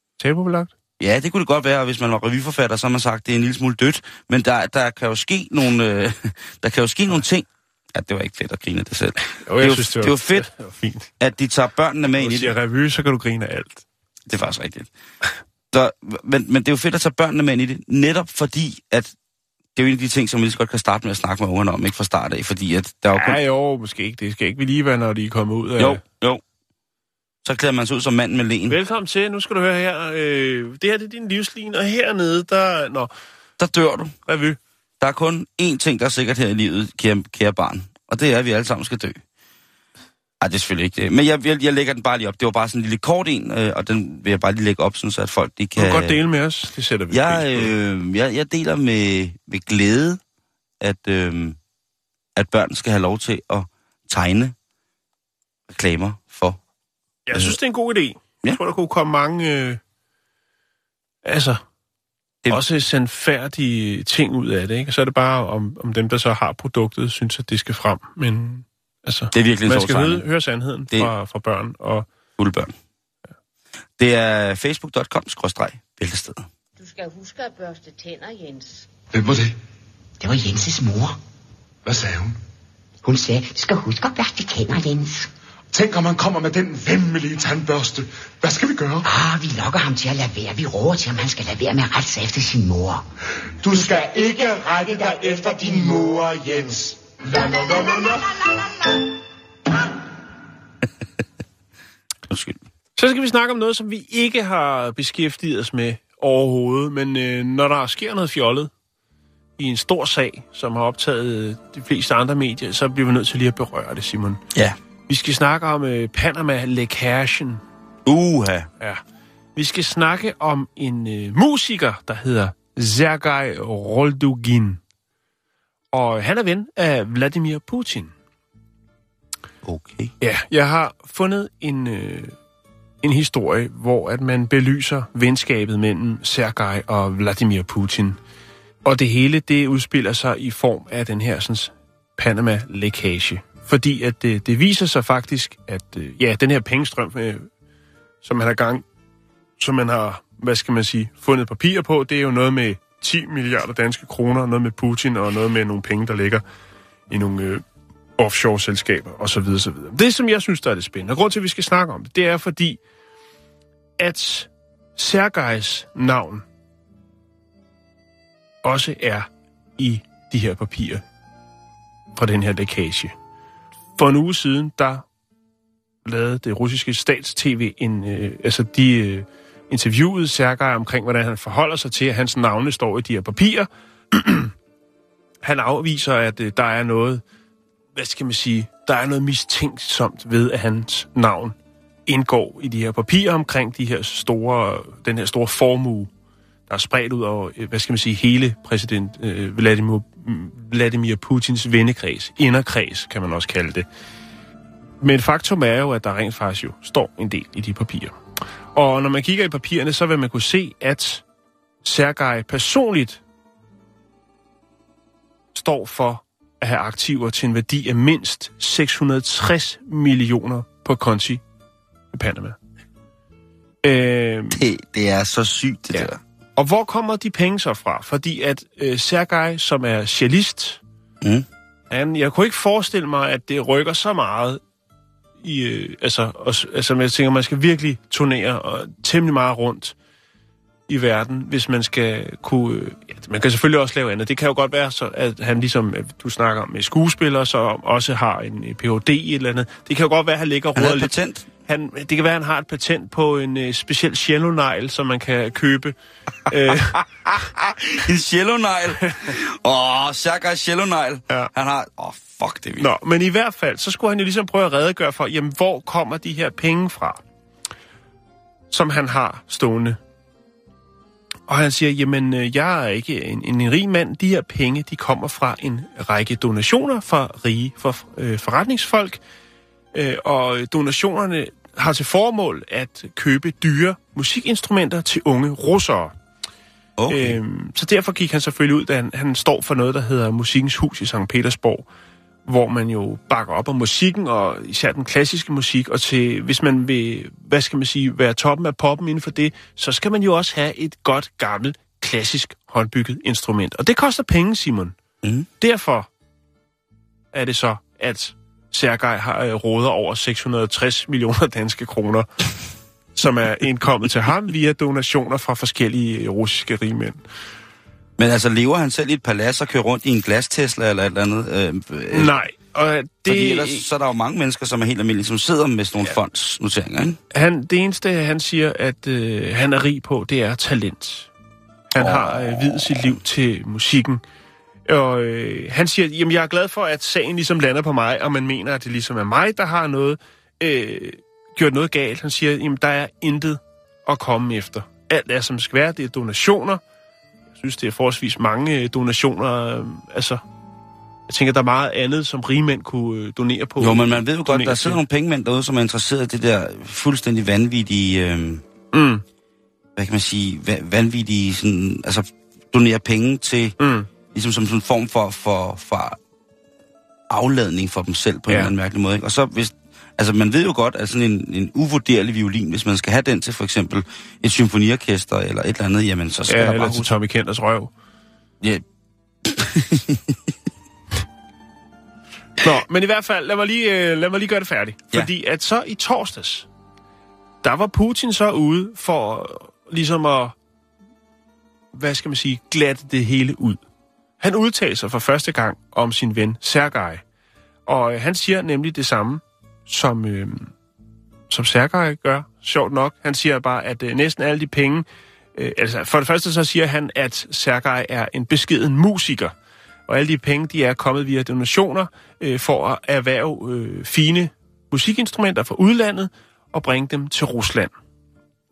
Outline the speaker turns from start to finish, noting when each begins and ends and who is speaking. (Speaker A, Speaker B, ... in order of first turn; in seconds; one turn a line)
Speaker A: 0.2-0.7
Speaker B: 1.0-10.5
Speaker A: 9.2-11.1
Speaker B: 11.2-12.6
Speaker A: 12.2-13.8
Speaker B: 14.3-14.9
Speaker B: 15.7-19.1
Speaker B: 19.8-23.4
Speaker A: 23.1-26.0
Speaker B: 25.8-26.4
Speaker B: 27.4-28.8
Speaker A: 28.7-33.1
Speaker B: 33.6-34.1
Speaker A: 34.3-34.6
Speaker B: 35.0-39.2
Speaker B: 40.4-46.2
Speaker A: 45.8-47.7
Speaker B: 47.1-50.2
Speaker B: 50.8-51.6
Speaker B: 52.4-54.5
Speaker B: 55.7-56.6
Speaker A: 57.3-59.8
Speaker B: 57.3-57.6
Speaker A: 61.2-61.6
Speaker A: 62.5-72.1
Speaker B: 69.3-70.3
Speaker B: 72.4-72.7
Speaker B: 74.0-76.5
Speaker C: 76.8-78.9
Speaker D: 79.1-79.6
Speaker E: 80.2-81.2
Speaker D: 81.8-82.4
Speaker E: 83.0-85.3
Speaker D: 85.7-89.1
Speaker E: 89.0-93.0
Speaker D: 93.6-98.4
Speaker B: 102.3-102.6
Speaker A: 103.0-108.7
Speaker A: 109.6-114.4
Speaker B: 114.5-114.8
Speaker A: 115.1-117.6
Speaker B: 118.1-118.7
Speaker A: 119.6-124.8
Speaker A: 125.9-128.1
Speaker B: 129.6-130.1
Speaker A: 130.2-132.4
Speaker A: 133.0-138.2
Speaker A: 138.8-147.5
Speaker A: 148.2-148.8
Speaker A: 149.6-156.4
Speaker A: 157.1-157.6
Speaker A: 158.2-162.8
Speaker A: 164.0-166.4
Speaker A: 168.6-171.0
Speaker A: 172.2-173.1
Speaker A: 174.0-175.1
Speaker A: 176.1-184.5
Speaker A: 185.4-187.2
Speaker A: 187.9-191.6
Speaker A: 192.1-196.1
Speaker A: 196.7-203.9
Speaker A: 205.0-208.2
Speaker A: 208.7-211.2
Speaker A: 211.8-213.2
Speaker A: 215.5-221.4
Speaker A: 222.1-222.6
Speaker A: 223.8-224.6
Speaker B: 224.5-226.2
Speaker A: 225.9-230.8
Speaker B: 231.2-231.5
Speaker A: 231.9-234.6
Speaker A: 235.4-239.9
Speaker A: 240.9-251.1
Speaker B: 250.8-251.5
Speaker A: 251.7-255.9
Speaker A: 256.5-257.0
Speaker B: 256.7-262.9
Speaker A: 262.8-267.2
Speaker A: 268.7-270.0
Speaker A: 271.5-279.2
Speaker A: 279.9-286.1
Speaker B: 287.0-287.4
Speaker A: 287.1-291.9
Speaker A: 292.5-305.0
Speaker B: 305.2-305.5
Speaker A: 305.6-306.1
Speaker A: 307.3-312.3
Speaker A: 313.2-317.2
Speaker B: 318.2-322.3
Speaker A: 322.1-323.9
Speaker B: 323.3-327.2
Speaker A: 327.3-331.3
Speaker A: 331.9-334.2
Speaker B: 332.0-333.2
Speaker A: 334.9-346.8
Speaker A: 347.6-350.4
Speaker A: 351.3-355.0
Speaker B: 353.8-358.6
Speaker A: 358.9-359.2
Speaker B: 360.0-363.8
Speaker A: 363.8-364.1
Speaker B: 364.3-366.2
Speaker B: 367.3-377.1
Speaker A: 376.5-377.9
Speaker B: 379.4-380.4
Speaker A: 382.6-386.7
Speaker A: 387.6-390.6
Speaker A: 391.9-393.8
Speaker A: 394.4-397.2
Speaker A: 397.9-400.7
Speaker A: 401.5-409.5
Speaker A: 410.1-417.9